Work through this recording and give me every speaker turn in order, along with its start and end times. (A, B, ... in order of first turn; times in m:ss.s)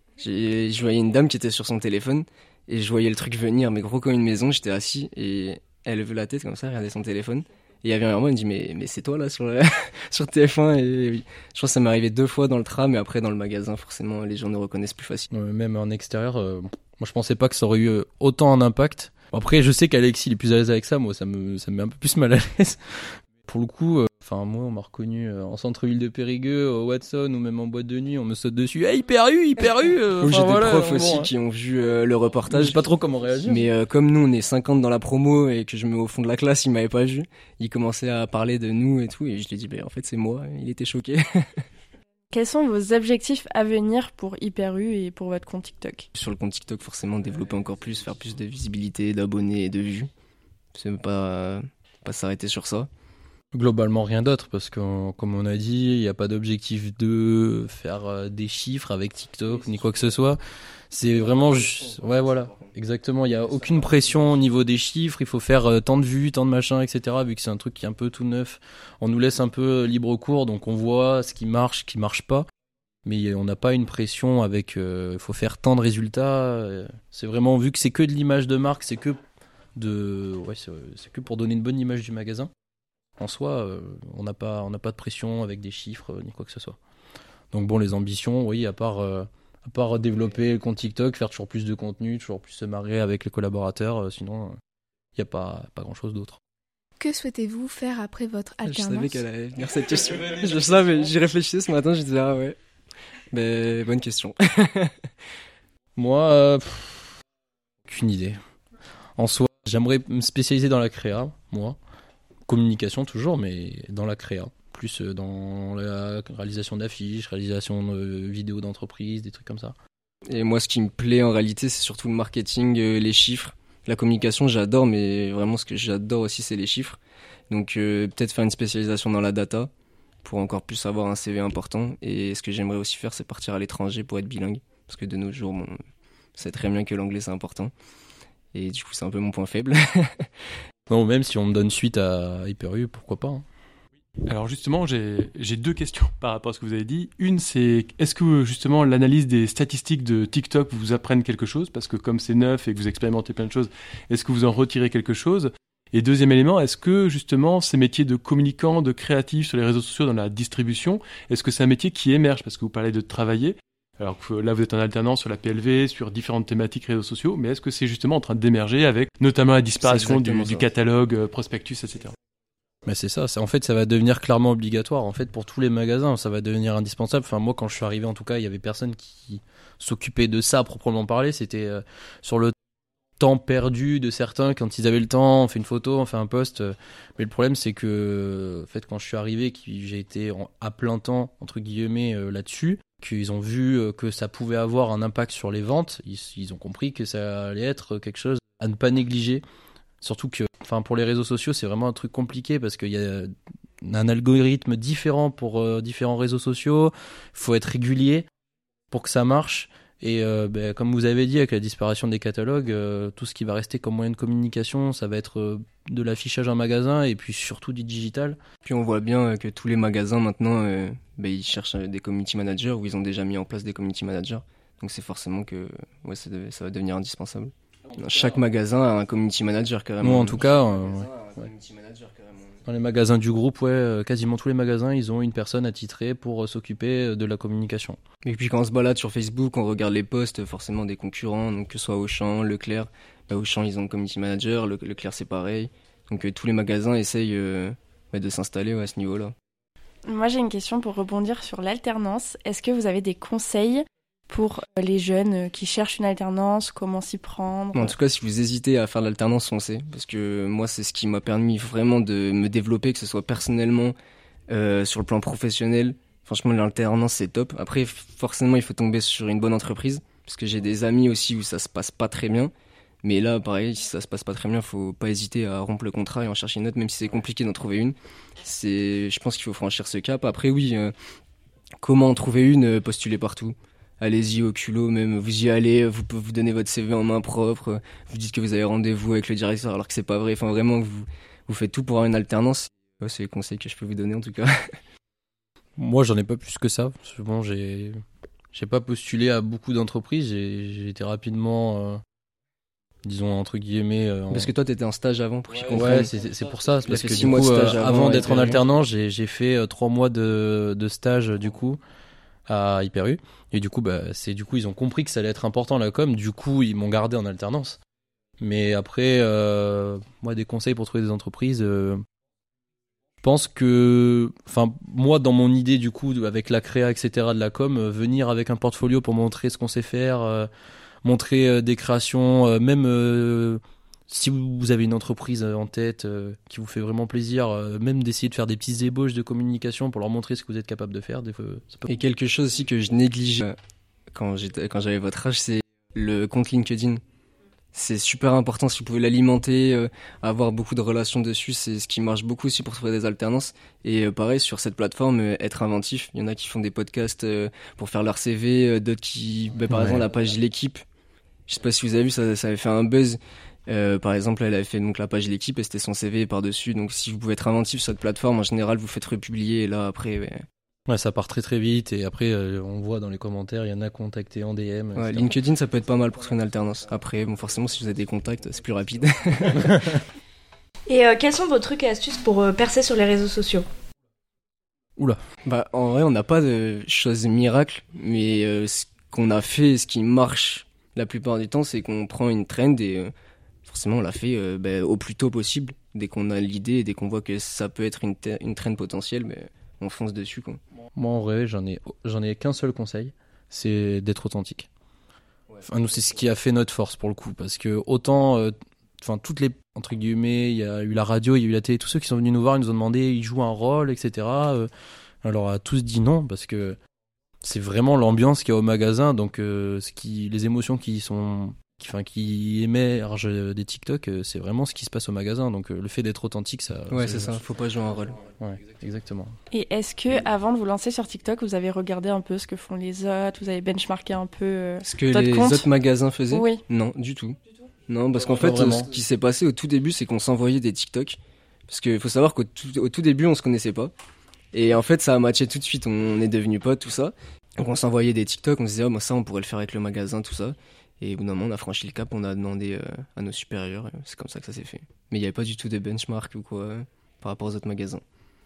0:00.2-0:15.3 A
0:15.3-0:31.3 B
0:30.2-0:32.8 A
0:32.5-0:33.7 B
0:33.4-0:41.6 A
0:42.3-0:46.1 C
0:46.1-0:50.1 A
0:50.7-0:52.9 A
0:53.5-1:00.4 B
1:00.9-1:12.5 B
1:13.0-1:19.2 B
1:19.8-1:22.5 B
1:23.2-1:26.8 B
1:27.5-1:34.6 B
1:35.1-1:36.4 B
1:37.0-1:39.2 D
1:38.6-1:42.6 A
1:43.3-1:45.1 A
1:46.0-1:47.1 B
1:47.8-1:48.4 B
1:49.2-1:51.8 B
1:52.5-1:59.7 B
2:00.3-2:07.0 A
2:07.5-2:09.7 A
2:10.2-2:15.8 A
2:16.4-2:17.7 A
2:18.5-2:20.3 A
2:20.9-2:23.4 B
2:24.2-2:52.1 E
2:49.8-2:50.7 A
2:52.8-3:02.5 B
3:03.2-3:19.4 B
3:20.0-3:28.3 B
3:28.9-3:38.4 B
3:38.6-3:52.6 A
3:50.0-3:51.5 B
3:52.6-3:58.0 B
3:58.2-4:09.3 A
4:10.0-4:17.9 C
4:17.7-4:23.9 A
4:24.5-4:32.5 A
4:33.0-4:40.9 A
4:41.8-4:54.7 A
4:55.8-4:58.0 B
4:58.5-5:02.0 B
5:03.0-5:04.5 B
5:04.3-5:06.1 A
5:05.7-5:11.8 B
5:06.9-5:08.6 A
5:12.5-5:17.8 B
5:18.4-5:22.0 B
5:23.2-5:30.5 B
5:31.0-5:41.8 B
5:41.8-5:43.6 A
5:44.1-5:47.0 A
5:47.7-6:00.8 A
5:59.7-6:00.0 B
6:01.5-6:10.4 A
6:10.9-6:15.3 B
6:15.0-6:20.0 A
6:19.6-6:20.0 B
6:20.9-6:23.6 F
6:25.0-6:25.2 B
6:25.4-6:33.1 A
6:33.6-6:40.6 A
6:41.0-6:44.7 B
6:45.6-6:54.7 B
6:55.2-6:56.8 B
6:57.4-7:07.4 B
7:06.9-7:08.2 A
7:08.4-7:09.3 B
7:09.5-7:15.7 C
7:14.8-7:17.4 A
7:16.3-7:16.6 C
7:17.9-7:23.9 A
7:18.3-7:18.9 B
7:24.5-7:38.0 A